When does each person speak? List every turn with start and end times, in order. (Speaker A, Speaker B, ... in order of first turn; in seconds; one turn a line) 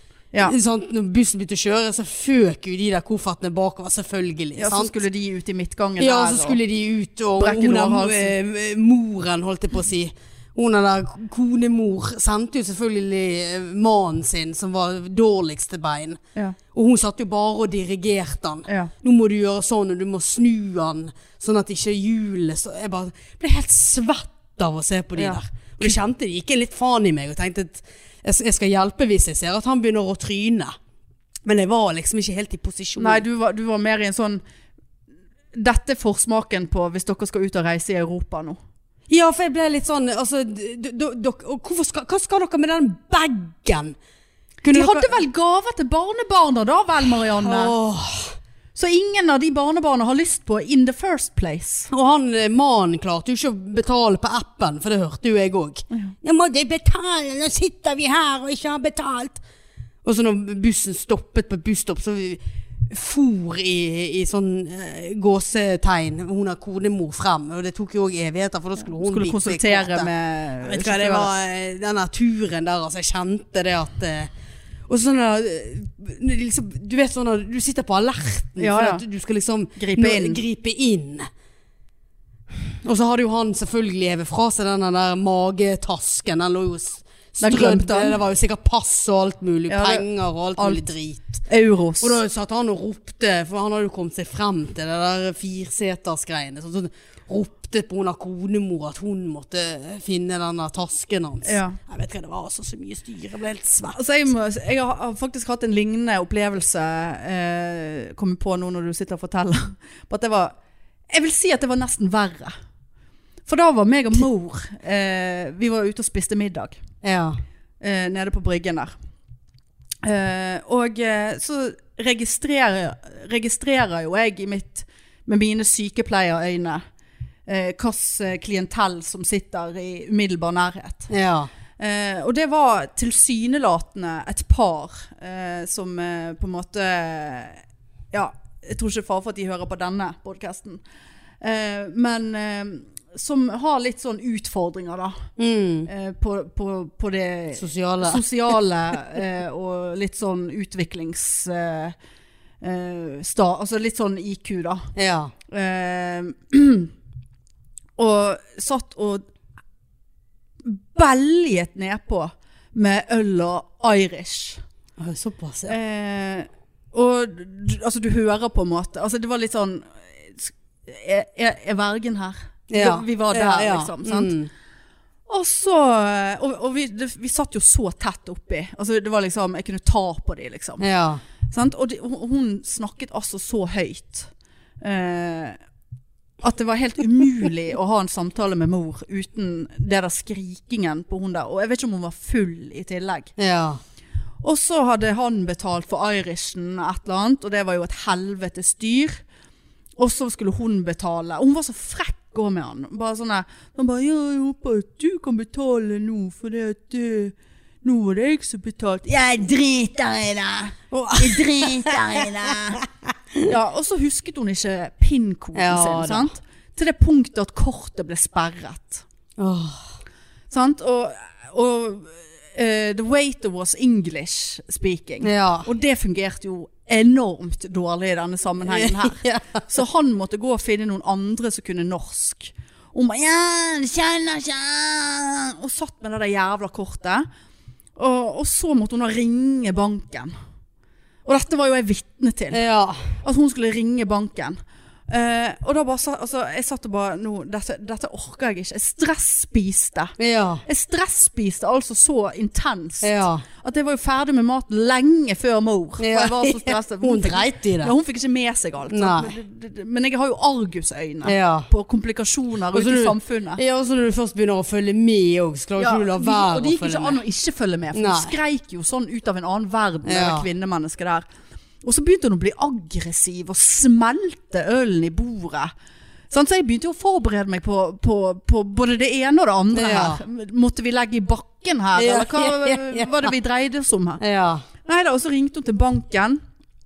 Speaker A: 0.4-4.9
Speaker B: 4.6-6.6
Speaker A: 6.0-16.2
Speaker B: 7.4-8.3
Speaker A: 16.7-30.7
Speaker B: 18.7-18.9
Speaker B: 25.1-26.0
Speaker A: 31.4-33.2
Speaker B: 33.0-34.4
Speaker B: 35.5-38.6
Speaker A: 39.1-44.0
Speaker A: 44.6-45.2
Speaker B: 44.7-47.8
Speaker A: 47.1-48.4
Speaker B: 48.7-51.9
Speaker A: 51.9-59.4
Speaker A: 60.0-70.1
Speaker B: 69.0-71.3
Speaker A: 70.6-74.3
Speaker A: 74.9-81.3
Speaker B: 78.6-79.0
Speaker B: 79.8-80.4
Speaker A: 82.7-91.4
Speaker B: 87.4-88.2
Speaker B: 89.7-90.0
Speaker B: 90.6-90.8
Speaker B: 91.4-92.2
Speaker A: 92.0-104.0
Speaker B: 101.4-101.8
Speaker B: 103.9-110.5
Speaker B: 111.1-112.5
Speaker B: 113.5-116.8
Speaker A: 117.0-117.4
Speaker B: 117.8-118.9
Speaker B: 120.0-126.8
Speaker B: 127.5-131.1
Speaker A: 131.1-131.5
Speaker B: 131.8-137.6
Speaker B: 138.1-140.8
Speaker B: 141.4-145.3
Speaker A: 145.4-145.9
Speaker B: 145.9-151.9
Speaker A: 147.6-148.2
Speaker B: 152.6-154.9
Speaker A: 154.9-155.3
Speaker B: 155.5-156.9
Speaker B: 158.0-159.2
Speaker B: 160.6-164.6
Speaker A: 165.0-165.8
Speaker B: 165.7-174.3
Speaker A: 172.7-174.5
Speaker B: 175.3-180.8
Speaker A: 180.8-181.2
Speaker B: 181.5-184.3
Speaker B: 184.8-185.6
Speaker B: 186.4-193.3
Speaker A: 193.4-193.8
Speaker B: 194.4-199.2
Speaker B: 200.0-212.8
Speaker A: 210.9-213.5
Speaker B: 213.4-219.0
Speaker A: 215.5-216.3
Speaker A: 219.4-219.9
Speaker B: 220.5-237.2
Speaker A: 225.2-225.7
Speaker A: 228.6-229.6
Speaker B: 238.0-240.3
Speaker B: 241.2-242.6
Speaker A: 242.5-243.1
Speaker B: 243.2-244.6
Speaker B: 245.1-250.1
Speaker A: 250.2-250.6
Speaker B: 250.7-263.6
Speaker A: 253.0-253.4
Speaker A: 256.0-257.9
Speaker A: 258.9-259.3
Speaker A: 261.2-261.7
Speaker A: 262.7-267.2
Speaker B: 265.8-271.2
Speaker A: 267.9-268.3
Speaker A: 270.0-270.4
Speaker B: 271.8-275.7
Speaker B: 276.3-284.2
Speaker A: 279.7-280.2
Speaker A: 281.9-283.3
Speaker A: 284.2-284.6
Speaker B: 284.8-286.4